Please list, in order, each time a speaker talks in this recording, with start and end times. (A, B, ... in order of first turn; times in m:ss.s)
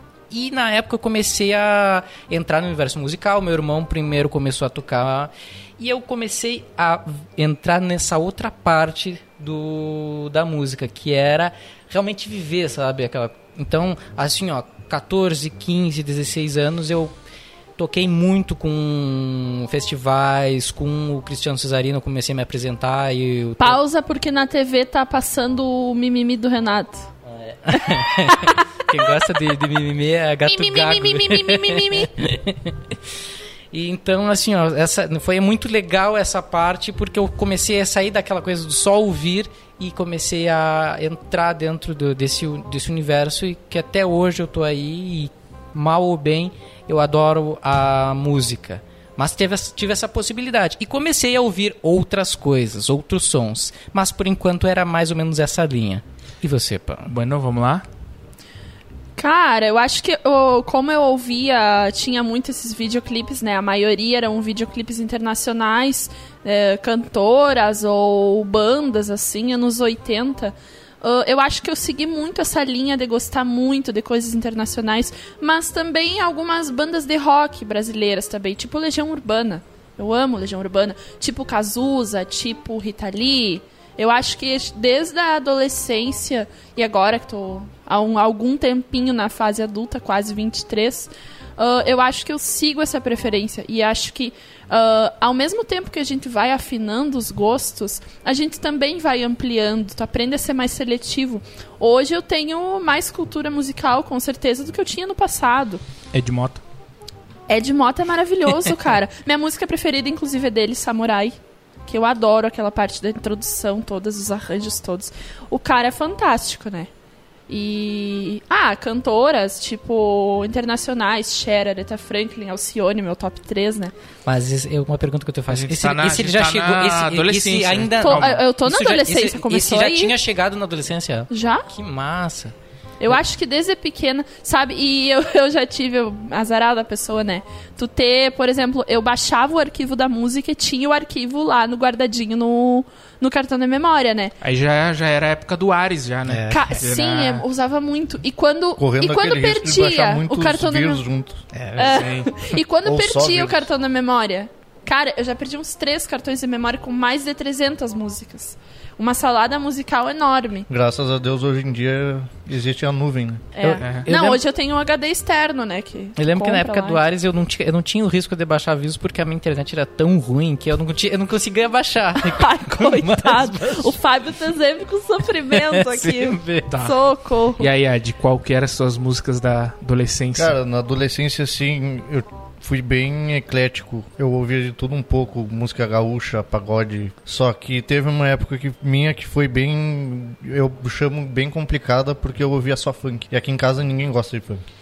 0:00.3-0:17.1 A
0:17.8-0:23.8 A
0:23.6-0:27.1 B
0:27.3-0:33.0 A
0:27.7-0:29.3 B
0:30.5-0:32.1 B
0:33.7-0:57.1 A
0:57.0-0:57.8 C
0:59.2-1:45.8 B
1:46.1-1:46.6 C
1:47.5-1:51.4 B
1:51.9-1:56.9 B
1:57.5-2:03.9 B
2:04.2-2:12.5 A
2:05.5-2:08.4 C
2:08.0-2:10.1 B
2:11.3-2:11.7 B
2:13.0-2:24.4 B
2:24.4-2:27.4 C
2:26.3-2:26.8 A
2:26.5-2:31.0 B
2:28.8-2:31.4 D
2:31.5-2:32.1 A
2:31.8-2:40.7 B
2:31.9-2:32.3 C
2:32.8-2:33.7 D
2:40.7-2:43.5 D
2:43.6-2:47.0 B
2:43.6-2:44.4 A
2:43.8-2:44.1 C
2:46.2-2:54.0 A
2:52.2-2:57.7 B
2:55.5-2:56.7 A
2:56.7-2:57.0 C
2:57.6-3:00.6 C
3:00.4-3:14.6 D